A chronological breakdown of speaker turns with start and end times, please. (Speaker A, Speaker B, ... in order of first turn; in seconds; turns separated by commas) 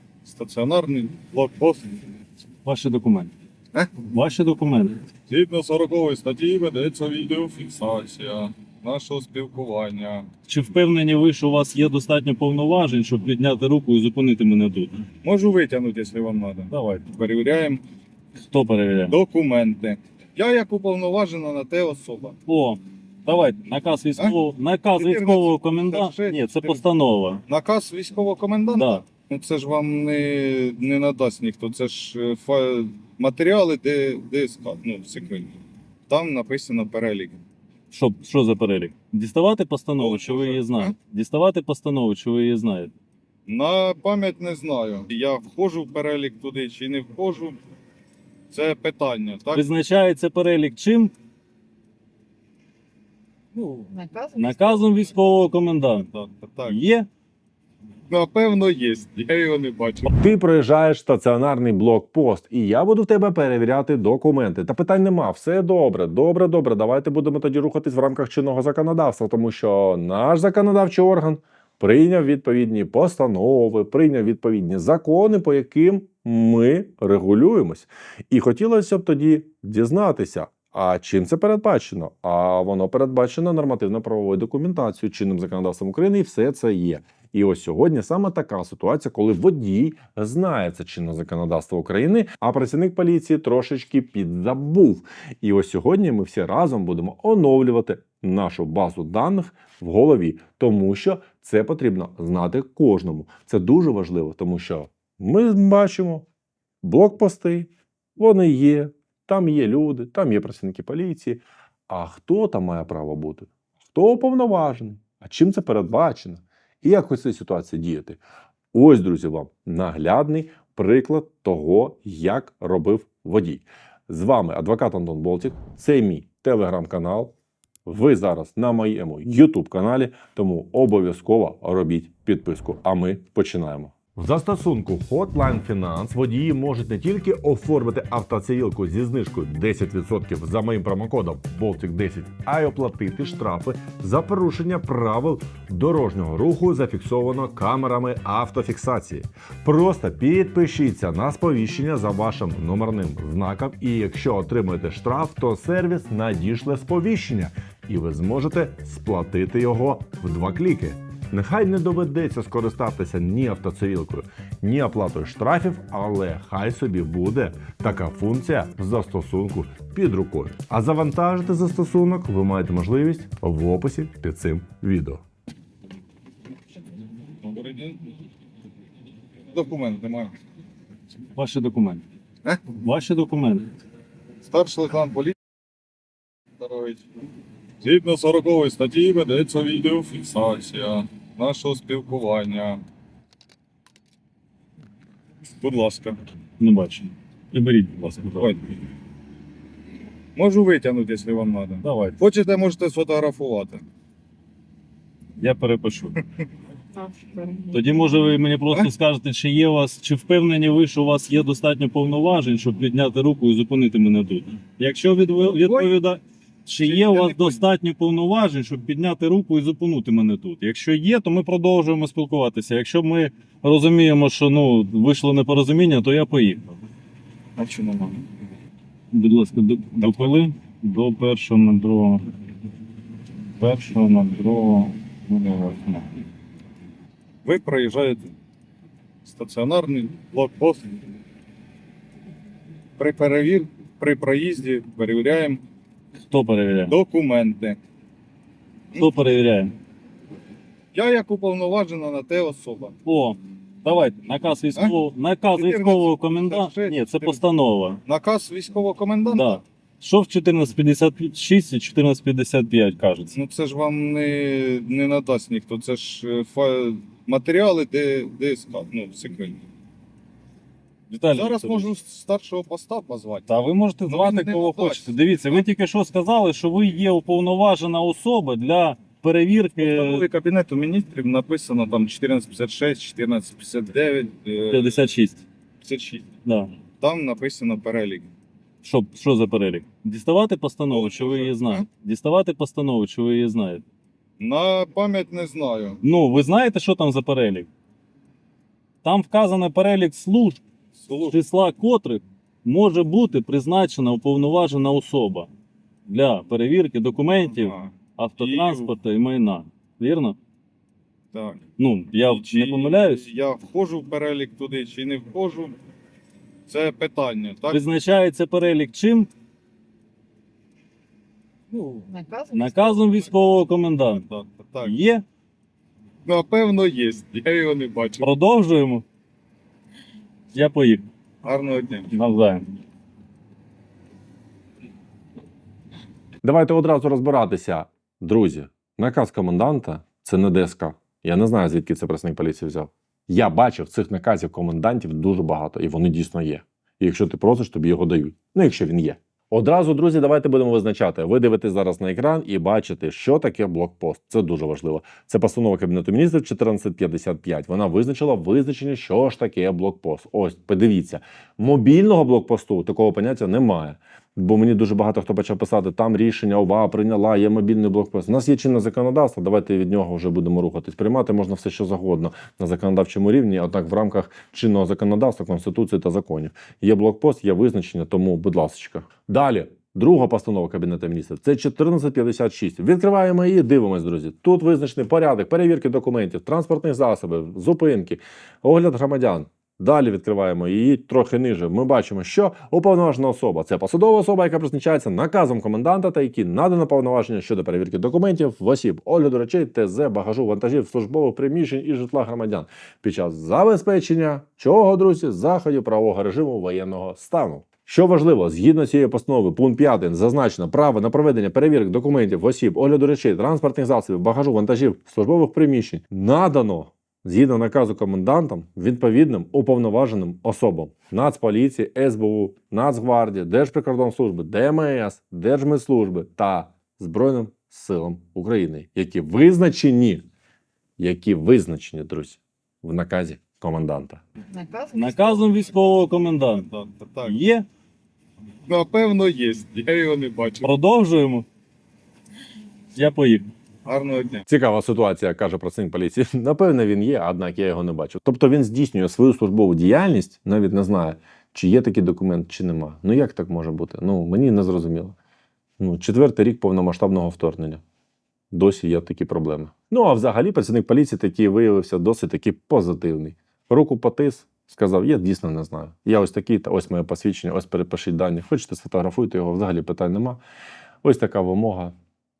Speaker A: 0.2-2.0, Speaker B: 2.6-3.3, Speaker B: 4.0-5.0, Speaker A: 5.3-10.3, Speaker B: 10.5-15.0, Speaker A: 15.2-17.8, Speaker B: 16.7-17.1, Speaker B: 18.5-19.2, Speaker A: 19.1-22.4, Speaker B: 22.5-27.4, Speaker A: 24.9-26.8, Speaker A: 27.5-35.6, Speaker B: 28.7-29.0, Speaker A: 36.1-37.4, Speaker B: 37.9-42.9, Speaker A: 40.0-40.9, Speaker A: 43.5-47.6, Speaker A: 48.5-49.6, Speaker B: 49.5-51.1, Speaker A: 53.5-53.9, Speaker C: 53.9-54.8, Speaker B: 54.3-56.1, Speaker A: 56.1-56.8, Speaker B: 56.7-57.1, Speaker A: 58.1-60.1, Speaker D: 60.1-106.3, Speaker D: 106.8-118.2, Speaker D: 118.7-127.3, Speaker D: 127.9-175.2, Speaker A: 177.4-178.1, Speaker A: 179.5-180.4, Speaker B: 181.3-182.0, Speaker A: 182.4-182.7, Speaker B: 182.7-183.7, Speaker A: 184.4-185.3, Speaker A: 186.6-187.1, Speaker A: 187.8-192.8, Speaker A: 195.6-196.2, Speaker B: 196.6-198.5, Speaker A: 198.4-198.7, Speaker A: 200.3-203.8, Speaker B: 201.8-202.2, Speaker B: 205.4-206.2, Speaker C: 207.0-207.7, Speaker B: 207.6-226.7, Speaker A: 215.6-215.9, Speaker A: 216.8-217.6, Speaker A: 227.6-228.2, Speaker B: 229.1-232.2, Speaker A: 230.0-230.4, Speaker B: 233.6-236.1, Speaker A: 237.4-238.3, Speaker A: 239.2-241.0, Speaker A: 243.0-245.6, Speaker B: 246.3-247.0, Speaker A: 246.9-247.8, Speaker B: 248.9-249.8, Speaker A: 250.9-252.9, Speaker B: 253.0-258.0, Speaker A: 255.5-257.4, Speaker A: 258.1-259.6, Speaker B: 259.3-263.4, Speaker A: 263.3-269.6, Speaker B: 271.1-271.9, Speaker A: 271.3-273.5, Speaker B: 273.5-280.2, Speaker A: 274.1-275.1, Speaker A: 279.8-285.0, Speaker B: 284.7-285.4, Speaker A: 285.8-286.4, Speaker B: 286.4-286.8, Speaker A: 287.0-288.3, Speaker B: 288.8-293.9, Speaker A: 290.9-291.8, Speaker A: 294.4-296.0, Speaker B: 296.0-297.7, Speaker B: 299.0-300.6, Speaker A: 300.9-301.4, Speaker B: 301.2-305.5, Speaker B: 306.1-310.4, Speaker A: 307.5-308.9, Speaker A: 311.3-311.6, Speaker B: 311.8-313.2, Speaker A: 312.2-315.8, Speaker A: 316.7-317.8, Speaker B: 317.7-319.3, Speaker A: 321.7-322.0, Speaker C: 322.1-322.7, Speaker B: 322.5-324.2, Speaker A: 324.1-325.0, Speaker B: 324.8-325.2, Speaker A: 326.2-328.3, Speaker B: 328.2-329.1, Speaker B: 330.5-331.1, Speaker A: 331.4-332.1, Speaker B: 332.1-332.7, Speaker D: 336.4-430.2, Speaker D: 431.0-434.2, Speaker C: 434.5-435.4, Speaker B: 434.9-436.7, Speaker A: 436.7-437.4, Speaker B: 437.2-437.7, Speaker A: 438.7-440.7, Speaker B: 440.6-441.5, Speaker B: 442.9-443.5, Speaker A: 443.9-444.5, Speaker D: 444.5-455.1, Speaker D: 455.8-457.8, Speaker D: 458.5-470.4, Speaker D: 471.0-471.9